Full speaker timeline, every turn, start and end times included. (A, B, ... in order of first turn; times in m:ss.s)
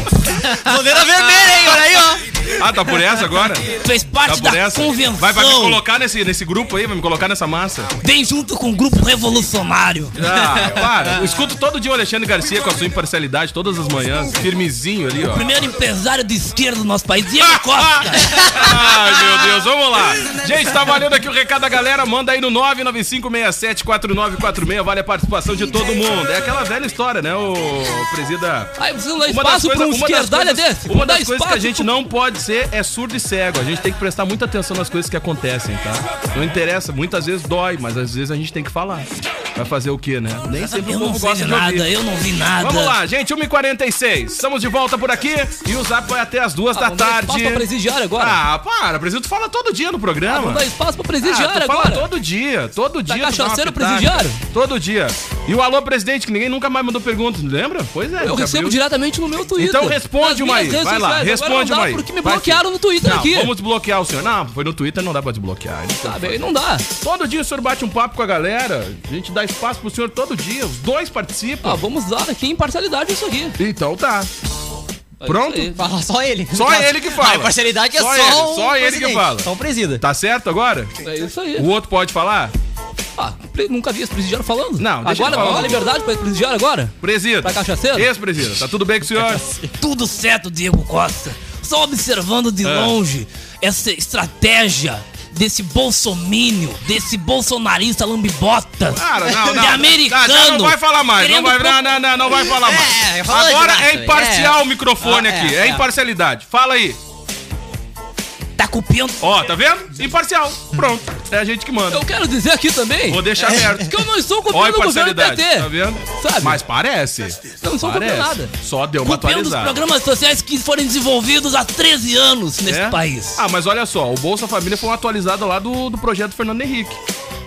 0:00.3-0:02.2 A
0:02.5-0:03.7 B
0:03.7-0:05.8 C
0:04.2-0:07.9 B
0:08.0-0:10.2 C
0:10.2-0:15.5 B
0:15.2-0:18.7 C
0:17.5-0:41.9 B
0:28.8-0:31.9 C
0:40.7-0:43.0 C
0:42.6-0:47.6 B
0:46.7-0:48.4 C
0:48.2-0:50.6 B
0:50.3-0:52.1 C
0:51.2-0:58.8 B
0:53.1-0:54.4 C
0:58.2-1:03.5 C
0:59.6-1:06.4 B
1:06.0-1:06.9 C
1:07.0-1:11.8 B
1:11.6-1:13.6 C
1:13.6-1:14.3 B
1:15.2-1:15.8 C
1:15.2-1:15.8 B
1:15.7-1:20.0 A
1:16.5-1:19.5 B
1:20.0-1:20.9 B
1:21.0-1:21.7 C
1:21.6-1:22.5 B
1:23.2-1:28.1 C
1:24.8-1:25.8 B
1:27.0-1:29.4 B
1:29.6-1:42.0 C
1:32.6-1:32.9 B
1:38.9-1:47.0 B
1:42.4-1:45.8 A
1:48.6-1:49.2 C
1:49.2-1:52.0 B
1:51.9-1:56.6 C
1:53.1-1:59.8 B
1:57.6-2:03.4 C
2:02.6-2:07.0 B